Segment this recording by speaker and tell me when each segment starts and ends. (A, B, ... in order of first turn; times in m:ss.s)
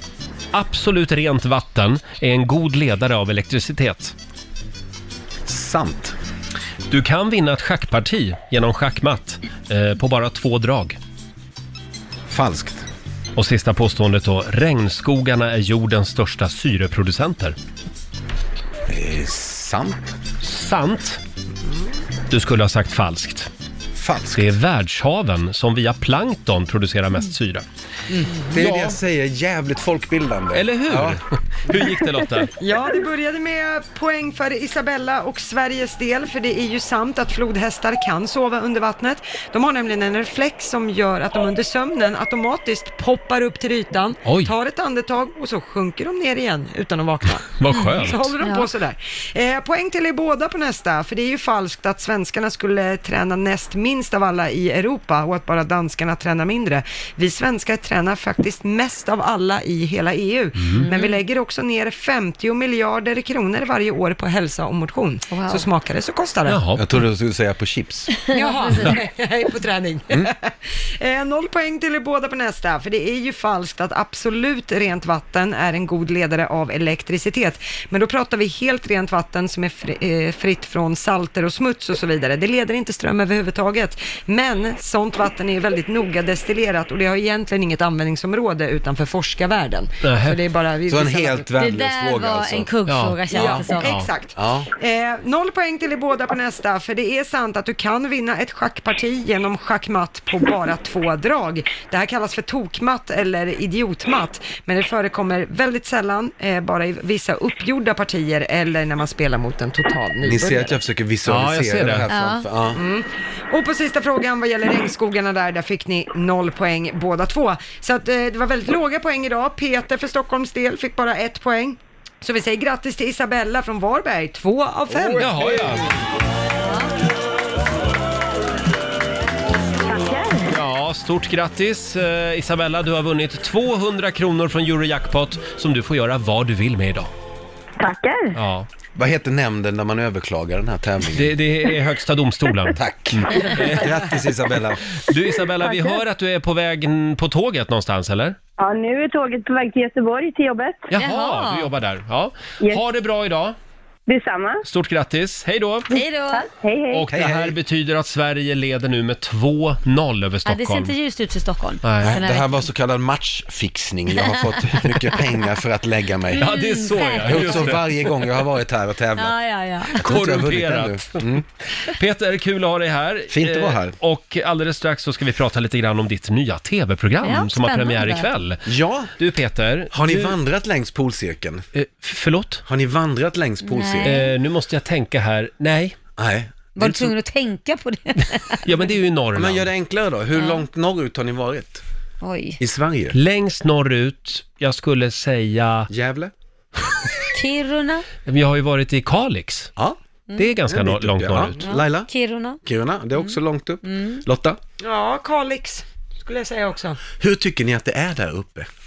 0:00.5-0:04.1 A
0:05.4-0:06.2 B
0:06.9-0:11.0 A
0:12.3-0:12.9 B
0:13.4-0:17.6 A
0:18.9-0:20.0 B
0:20.4-0:21.2 A
0:22.3-0:23.5 A
0:23.9-0:24.5 B
0:24.4-0:27.6 A
0:28.4-0:31.2 B
0:28.5-0:29.0 A
0:30.5-0:32.5 A
0:32.6-1:06.6 C
0:44.2-0:44.5 A
0:47.6-0:48.3 A
0:48.4-0:48.7 D
1:00.6-1:00.8 A
1:00.8-1:01.2 D
1:05.3-1:05.6 D
1:06.5-1:06.8 A
1:06.8-1:08.2 B
1:08.3-1:08.9 D
1:08.3-1:31.5 C
1:30.0-1:30.4 A
1:30.8-1:32.7 B
1:31.6-1:33.9 D
1:32.9-1:34.1 A
1:33.3-1:50.8 C
1:34.4-1:34.7 B
1:50.2-1:52.8 B
1:51.2-1:52.1 A
1:52.1-1:52.5 D
1:52.7-2:05.8 C
2:04.9-2:05.2 B
2:05.0-2:05.9 A
2:06.6-2:06.9 D
2:09.8-2:10.5 E
2:10.5-2:17.1 A
2:17.8-2:18.3 E
2:18.3-2:18.7 A
2:18.9-2:21.4 B
2:21.1-2:24.0 A
2:22.7-2:24.9 B
2:24.9-2:28.4 A
2:25.6-2:26.0 E
2:28.6-2:30.9 E
2:30.9-2:33.6 A
2:31.0-2:31.7 D
2:34.1-2:34.6 E
2:34.6-2:35.9 A
2:35.9-2:36.5 D
2:36.3-2:37.1 E
2:36.9-2:40.9 A
2:37.1-2:37.6 B
2:40.4-2:42.6 D
2:41.8-2:42.2 A
2:42.0-2:46.5 B
2:44.2-2:45.3 D
2:46.3-2:47.8 D
2:46.4-2:48.1 A
2:47.2-2:49.4 B
2:49.2-2:50.0 D
2:49.9-2:51.4 B
2:50.0-3:00.4 A
2:53.3-2:54.0 B
2:57.2-2:58.3 D
2:58.6-2:59.1 B
2:59.9-3:01.6 B
3:01.7-3:02.6 A
3:02.6-3:04.2 B
3:03.6-3:04.3 D
3:04.0-3:06.0 A
3:06.2-3:07.1 B
3:06.8-3:08.9 D
3:08.6-3:09.7 A
3:09.3-3:11.8 B
3:10.3-3:10.6 D
3:12.2-3:12.6 D
3:12.6-3:13.2 B
3:13.1-3:15.9 A
3:15.9-3:16.3 B
3:17.3-3:18.1 D
3:18.2-3:19.7 A
3:20.4-3:21.7 A
3:20.7-3:22.1 B
3:21.6-3:22.6 D
3:22.6-3:24.6 B
3:23.2-3:24.2 D
3:24.8-3:27.0 C
3:27.2-3:28.7 B